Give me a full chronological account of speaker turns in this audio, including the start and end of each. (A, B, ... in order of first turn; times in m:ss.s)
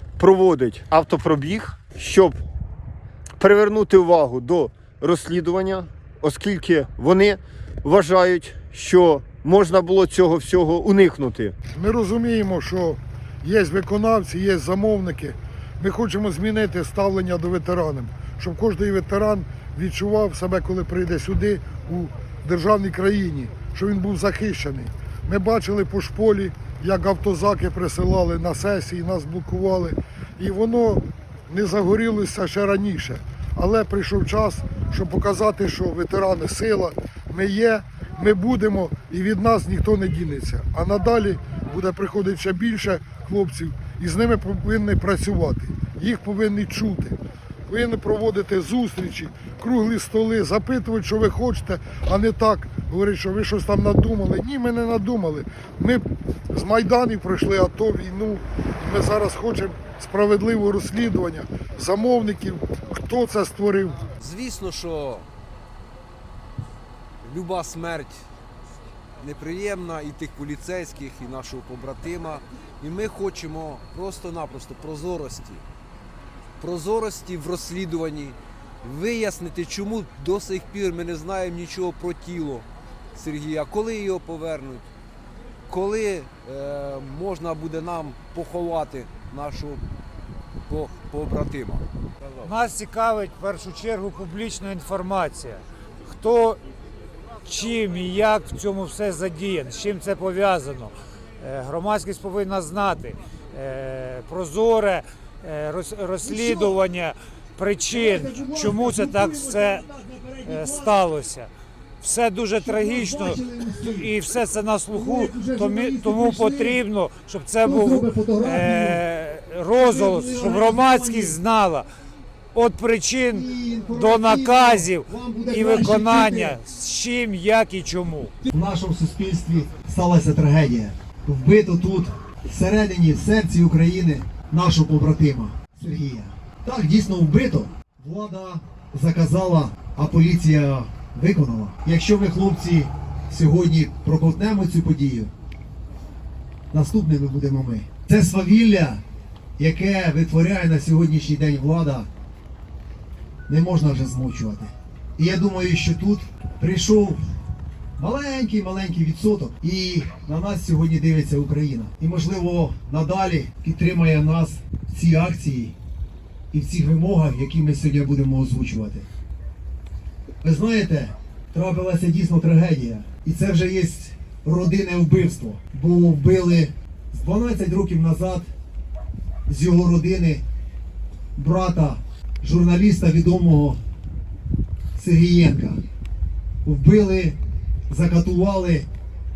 0:00.2-0:02.4 A
0:03.4-0:11.6 A
0:11.8-1:04.0 B
1:04.2-1:05.3 C
1:07.2-1:08.2 C
1:09.2-1:15.7 C
1:16.6-1:24.9 C
1:25.7-1:29.8 C
1:30.7-1:31.8 C
1:32.4-1:36.6 D
1:37.4-1:49.9 D
1:46.2-1:46.8 E
1:47.9-1:51.1 E
1:50.4-2:01.9 D
1:52.5-1:54.1 E
1:54.9-1:56.8 E
1:57.6-1:59.0 E
1:59.7-2:01.4 E
2:02.5-2:08.4 D
2:03.3-2:06.6 E
2:08.5-2:25.3 E
2:26.7-2:29.0 E
2:29.6-2:32.1 E
2:33.5-2:37.2 E
2:38.0-2:45.8 E
2:46.5-2:49.1 E
2:50.4-2:58.5 E
2:59.5-3:00.4 E
3:01.4-3:03.8 E
3:05.0-3:05.8 E
3:06.6-3:08.9 E